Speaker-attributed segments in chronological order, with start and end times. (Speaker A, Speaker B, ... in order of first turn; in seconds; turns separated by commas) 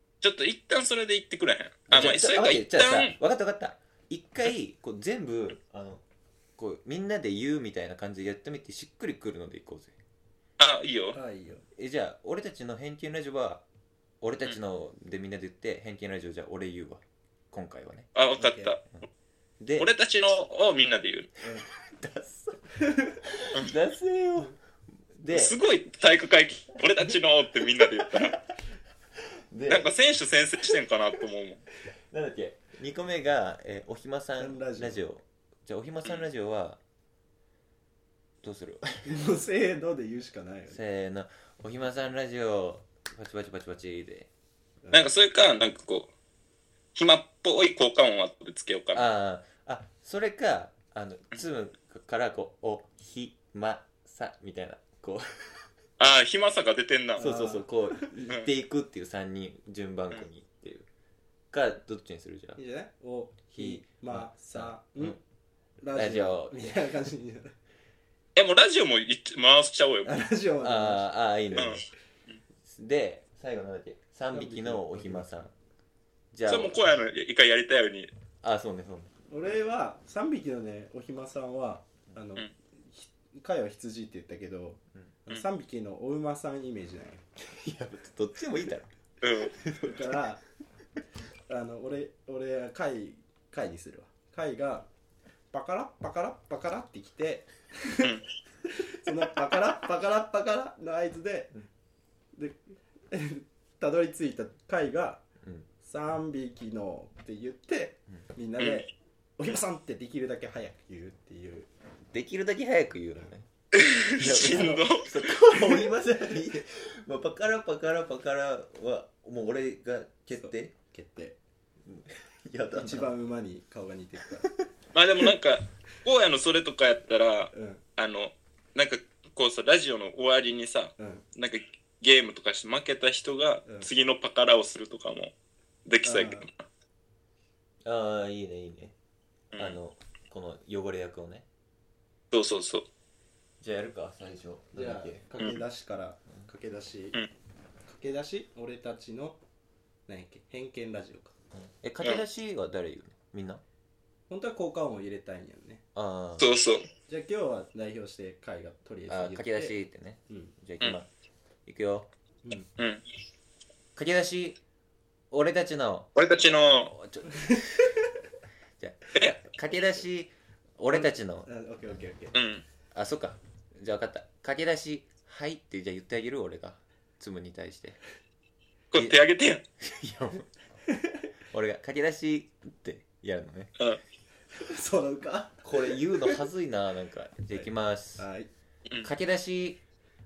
Speaker A: 0.2-3.1, Speaker B: 1.9-6.0, Speaker B: 6.6-9.9, Speaker A: 10.6-11.2, Speaker C: 11.1-11.6, Speaker B: 11.8-13.6, Speaker B: 14.2-18.1, Speaker A: 18.1-18.8, Speaker C: 18.4-18.8, Speaker B: 19.6-19.9, Speaker A: 19.8-21.3, Speaker B: 21.7-24.5, Speaker C: 22.8-23.1, Speaker B: 25.1-25.6, Speaker A: 25.3-28.4, Speaker B: 29.5-29.9, Speaker A: 29.7-31.6, Speaker B: 32.1-36.8, Speaker C: 34.4-35.0, Speaker B: 38.4-39.0, Speaker C: 39.0-40.8, Speaker B: 40.7-44.3, Speaker C: 44.8-45.1, Speaker A: 44.9-46.1, Speaker A: 46.9-49.0, Speaker B: 48.9-55.2, Speaker A: 56.0-57.2, Speaker C: 57.1-58.1, Speaker B: 57.2-60.9, Speaker B: 61.5-62.6, Speaker C: 62.6-65.2, Speaker B: 63.5-65.2, Speaker C: 65.8-67.5, Speaker B: 65.9-66.6, Speaker A: 68.3-70.2, Speaker C: 70.0-71.1, Speaker B: 70.6-71.9, Speaker A: 71.5-72.4, Speaker B: 72.7-75.5, Speaker C: 74.3-75.4, Speaker B: 76.3-76.8, Speaker A: 76.5-78.1, Speaker B: 78.4-79.1, Speaker C: 79.3-87.2, Speaker B: 87.5-88.9, Speaker A: 89.2-89.5, Speaker B: 89.5-90.1, Speaker C: 89.8-90.4, Speaker C: 91.5-94.9, Speaker C: 95.5-101.5, Speaker C: 102.3-105.2, Speaker C: 105.8-111.7, Speaker A: 108.6-108.8, Speaker B: 112.1-113.5, Speaker A: 113.7-115.1, Speaker B: 114.1-120.7, Speaker C: 120.4-121.4, Speaker B: 121.9-123.1, Speaker C: 122.8-124.5, Speaker A: 124.9-135.3, Speaker C: 127.5-127.8, Speaker C: 131.0-131.2, Speaker A: 135.8-136.6, Speaker C: 136.0-136.5, Speaker B: 137.8-138.9, Speaker A: 139.5-139.8, Speaker B: 139.5-141.4, Speaker A: 142.3-142.8, Speaker B: 143.6-145.2, Speaker C: 144.7-147.2, Speaker C: 147.9-149.4, Speaker C: 150.1-151.3, Speaker B: 151.5-153.6, Speaker C: 154.3-155.8, Speaker B: 155.9-156.6, Speaker A: 156.4-156.9, Speaker C: 157.1-159.8, Speaker B: 159.1-161.1, Speaker C: 160.3-160.5, Speaker B: 161.7-162.1, Speaker C: 162.4-162.7, Speaker A: 162.8-163.0, Speaker B: 163.9-164.6, Speaker B: 165.3-166.1, Speaker A: 166.1-166.9, Speaker B: 166.9-167.8, Speaker C: 167.4-167.7, Speaker B: 168.8-171.5, Speaker C: 170.9-172.3, Speaker A: 172.3-172.6, Speaker B: 172.9-178.0, Speaker A: 178.9-179.6, Speaker B: 178.9-179.2, Speaker B: 179.8-180.5, Speaker C: 180.9-181.2, Speaker B: 181.5-183.7, Speaker C: 184.6-186.4, Speaker B: 185.6-188.3, Speaker C: 187.5-188.5, Speaker B: 189.0-189.8